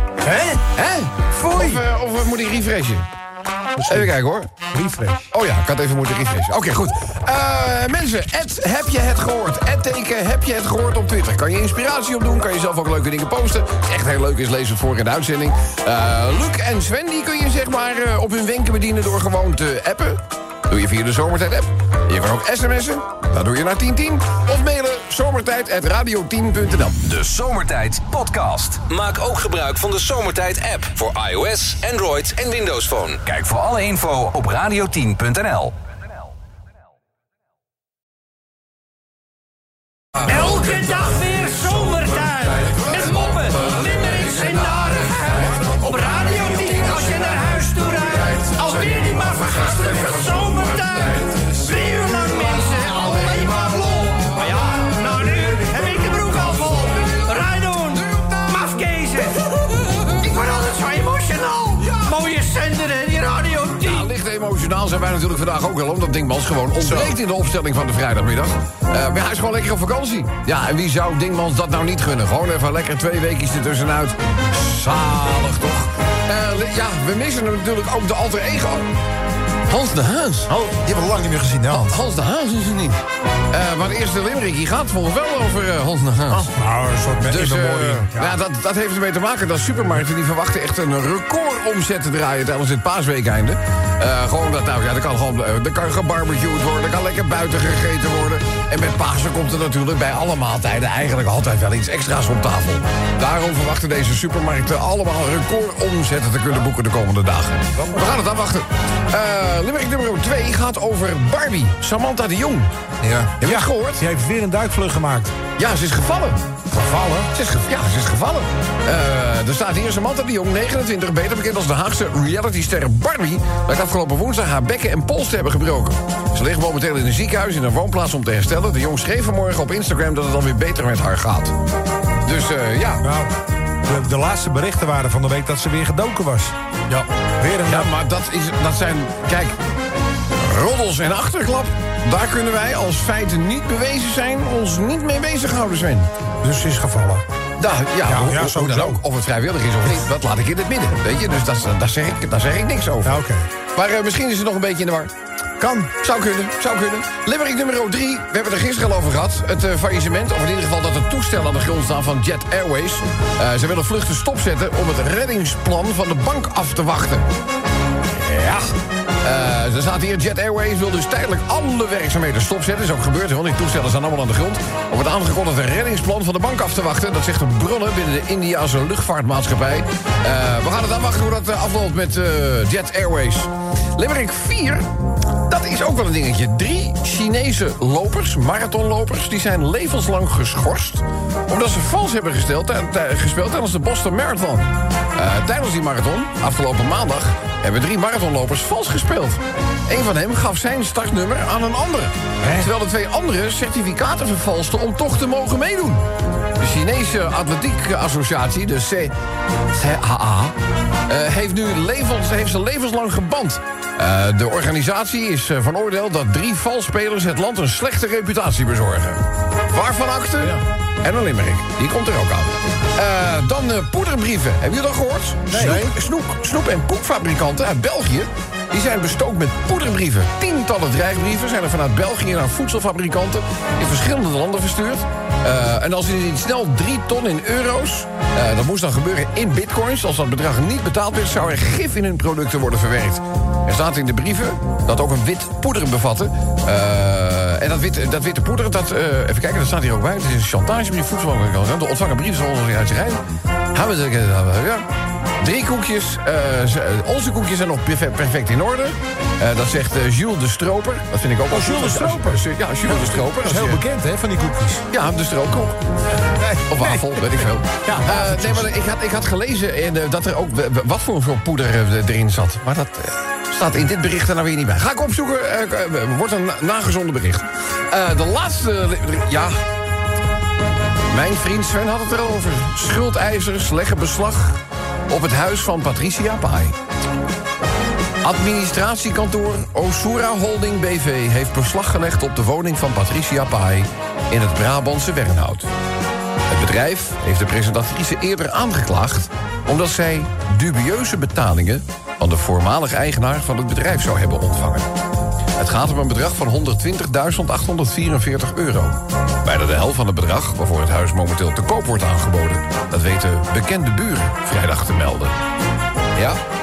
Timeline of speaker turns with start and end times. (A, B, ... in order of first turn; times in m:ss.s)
0:00.2-0:00.6 A
0:00.7-0:03.1 B
0:01.4-0:01.8 A
0:03.8-0:04.1 A
0:03.8-0:04.5 B
0:04.7-0:05.3 A
0:05.3-0:27.0 B
0:27.0-0:35.7 C
0:40.2-1:04.1 D
1:03.8-1:18.9 B
1:19.7-1:20.5 B
1:20.5-1:22.0 E
1:21.7-1:26.5 B
1:26.5-1:28.4 A
1:27.2-1:52.7 B
1:53.0-1:53.4 E
1:53.4-1:54.0 B
1:53.4-1:55.3 A
1:55.6-1:56.4 B
1:56.7-1:57.3 A
1:57.3-2:11.5 B
2:12.2-2:13.0 B
2:13.0-2:13.3 A
2:13.8-2:16.5 A
2:17.4-2:17.9 A
2:17.6-2:19.6 B
2:20.4-2:26.1 B
2:26.4-2:27.2 A
2:27.6-2:33.2 B
2:28.0-2:29.0 A
2:33.0-2:33.5 A
2:33.7-2:35.1 B
2:35.6-2:35.9 A
2:36.0-2:47.2 B
2:48.1-3:04.9 B
3:05.4-3:26.0 B
3:22.4-3:22.7 A
3:26.6-3:29.1 B
3:29.7-3:30.5 B
3:31.1-4:13.2 B
3:45.5-3:46.0 E
3:45.5-3:45.8 A
4:13.7-4:14.8 B
4:15.4-4:23.8 B
4:21.5-4:24.8 A
4:24.9-4:25.8 B
4:26.2-4:28.7 A
4:26.6-4:39.6 B
4:41.1-4:46.8 B
4:48.2-4:55.7 B
4:56.5-5:04.9 B
5:05.6-5:15.4 B
5:16.1-5:16.4 B